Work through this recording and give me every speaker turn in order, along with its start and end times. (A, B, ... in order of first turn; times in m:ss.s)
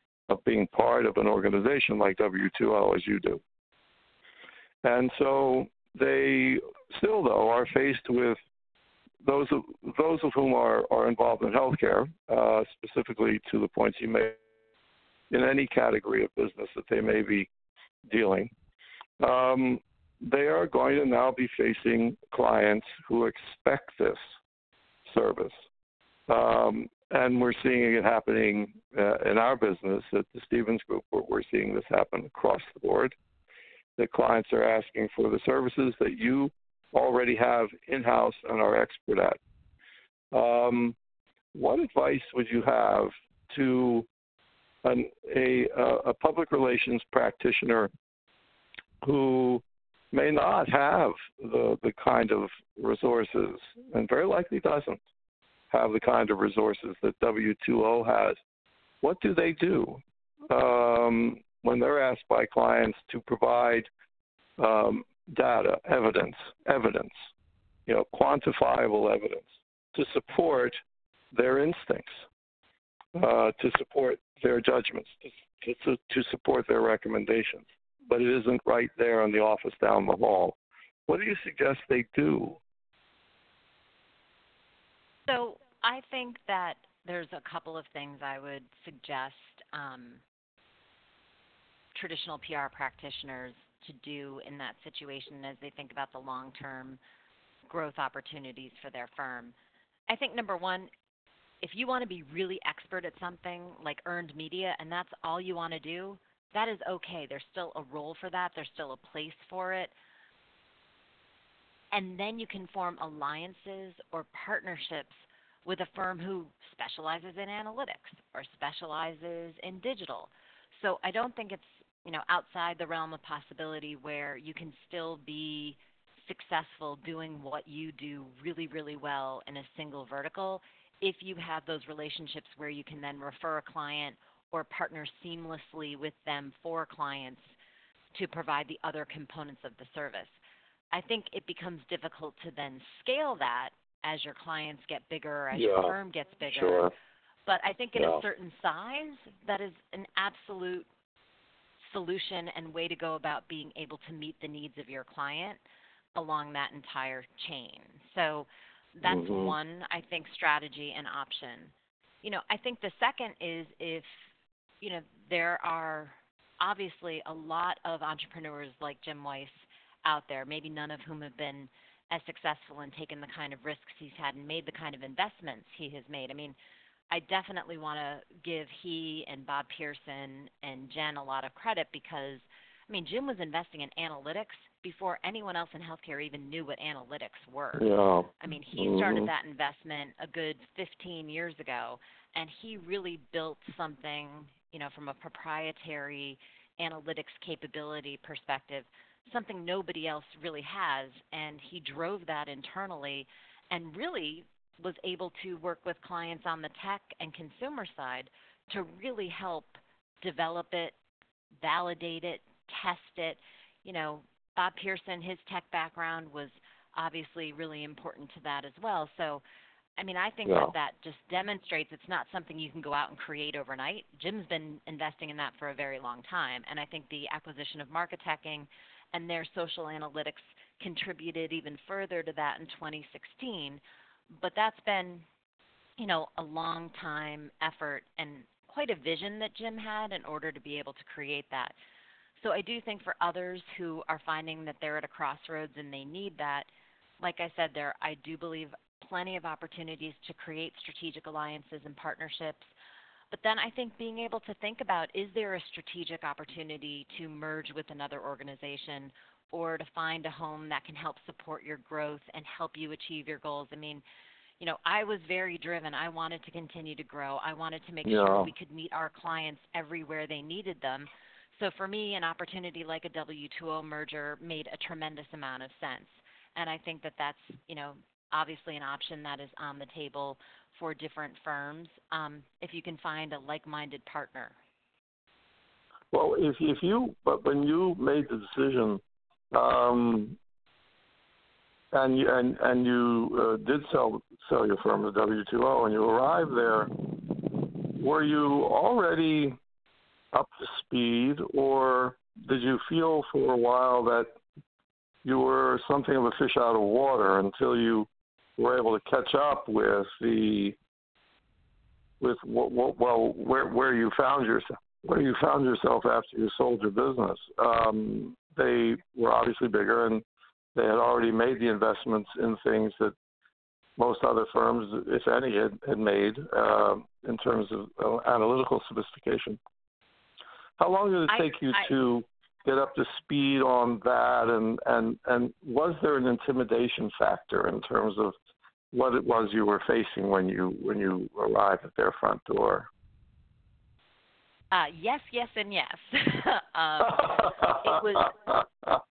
0:00.3-0:03.4 A
0:04.8-0:08.4 A
0:09.2-0:14.4 A
0:15.3-0:17.5 A
0:18.1-0:18.5 A
0:19.2-0:24.2 A
0:25.0-0:25.5 A
0:26.3-0:33.1 A
0:34.0-0:39.4 A
0:40.3-0:41.0 A
0:41.5-0:44.1 A
0:44.8-0:47.9 A
0:49.0-0:55.0 A
0:55.7-0:58.4 A
0:59.0-1:03.9 A
1:04.6-1:07.1 A
1:07.9-1:10.8 A
1:11.3-1:12.2 A
1:13.1-1:22.6 A
1:25.3-1:30.2 B
1:31.9-1:37.0 B
1:37.7-1:39.5 B
1:40.1-1:40.9 B
1:41.6-1:49.9 B
1:51.9-2:17.5 B
2:18.1-2:20.4 B
2:20.9-2:26.9 B
2:25.5-2:26.0 A
2:26.5-2:26.9 A
2:27.5-2:30.9 B
2:28.0-2:28.2 A
2:31.8-2:35.6 B
2:36.1-2:44.2 B
2:39.0-2:39.5 A
2:44.8-2:56.6 B
2:57.1-3:07.9 B
3:07.8-3:09.3 A
3:08.4-3:30.9 B
3:31.6-3:39.4 B
3:40.0-3:53.8 B
3:40.5-3:40.7 A
3:54.3-3:55.2 B
3:56.0-4:01.7 B
4:02.4-4:06.7 B
4:07.2-4:12.7 B
4:13.3-4:24.0 B
4:24.6-4:44.6 B
4:28.0-4:28.5 A
4:46.1-4:50.4 A
4:51.9-4:56.9 A
4:57.9-4:59.6 A
5:00.3-5:04.3 A
5:05.2-5:10.8 A
5:12.2-5:20.2 A
5:20.7-5:23.1 A
5:24.0-5:29.6 A
5:30.8-5:38.3 A
5:31.3-5:31.9 B
5:38.9-5:42.9 A
5:44.7-5:48.6 B